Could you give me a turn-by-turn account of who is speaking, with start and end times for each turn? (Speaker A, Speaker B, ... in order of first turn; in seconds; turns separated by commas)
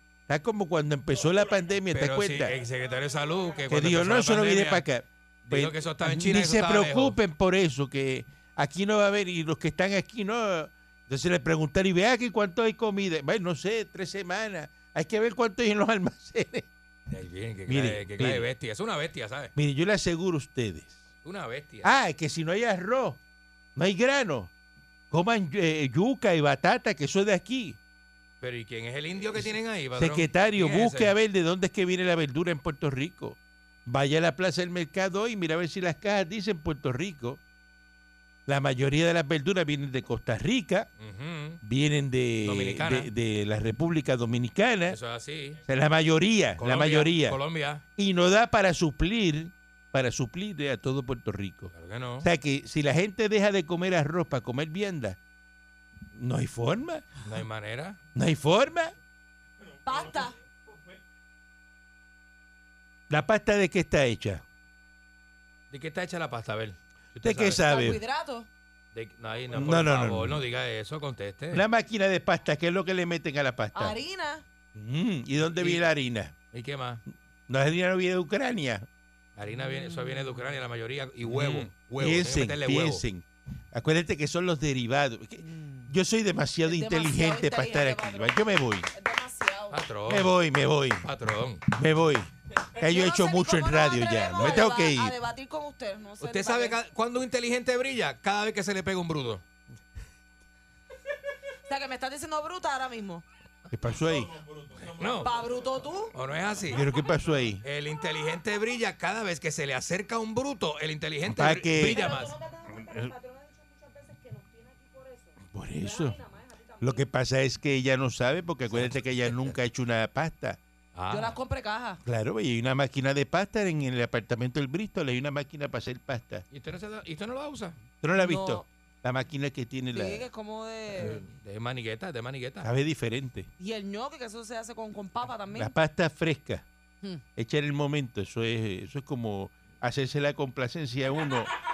Speaker A: 0.3-2.6, Speaker B: 1.9-4.8, Speaker A: 3.7-16.7, Speaker B: 5.5-7.2, Speaker B: 17.1-19.5, Speaker A: 17.7-18.5, Speaker A: 19.6-21.1, Speaker B: 21.2-21.9, Speaker A: 21.8-23.2, Speaker A: 23.8-24.5, Speaker A: 25.1-27.8, Speaker B: 28.4-31.1, Speaker A: 29.3-37.4, Speaker A: 38.5-40.9, Speaker B: 41.0-41.6, Speaker A: 41.6-45.0, Speaker B: 42.4-43.1, Speaker B: 44.9-45.6, Speaker A: 45.7-47.4, Speaker B: 46.6-47.8, Speaker A: 48.0-55.2, Speaker B: 51.7-52.3, Speaker A: 56.1-57.2, Speaker B: 57.2-58.0, Speaker A: 58.1-58.9, Speaker C: 59.9-60.4, Speaker A: 63.1-64.4, Speaker B: 65.7-67.6, Speaker A: 67.2-68.0, Speaker C: 67.6-68.5, Speaker B: 68.9-71.6, Speaker A: 69.5-70.4, Speaker A: 71.5-74.0, Speaker C: 73.7-74.5, Speaker A: 74.8-76.3, Speaker B: 75.5-75.9, Speaker B: 76.5-77.0, Speaker A: 77.5-78.9, Speaker B: 79.4-83.0, Speaker C: 79.5-80.4, Speaker A: 81.2-88.9, Speaker C: 85.4-85.9, Speaker C: 86.7-89.8, Speaker B: 89.7-90.3, Speaker A: 90.1-91.1, Speaker B: 91.0-91.7, Speaker A: 91.7-95.2, Speaker C: 92.8-96.8, Speaker B: 96.2-99.4, Speaker C: 101.7-103.2, Speaker A: 103.7-104.4, Speaker B: 104.8-105.4, Speaker C: 105.2-106.1, Speaker B: 106.1-106.9, Speaker A: 106.7-107.7, Speaker B: 107.6-112.3, Speaker A: 111.2-112.1, Speaker C: 111.8-117.0, Speaker A: 112.8-113.1, Speaker A: 115.5-116.2, Speaker A: 116.8-120.6, Speaker B: 118.7-119.5, Speaker B: 120.9-121.4, Speaker C: 121.1-122.0, Speaker A: 122.0-126.4, Speaker B: 126.5-127.8, Speaker A: 128.0-130.3, Speaker C: 128.2-128.7, Speaker C: 129.9-131.2, Speaker B: 131.0-132.7, Speaker A: 132.6-133.5, Speaker C: 133.6-135.7, Speaker A: 135.5-136.7, Speaker A: 137.4-141.5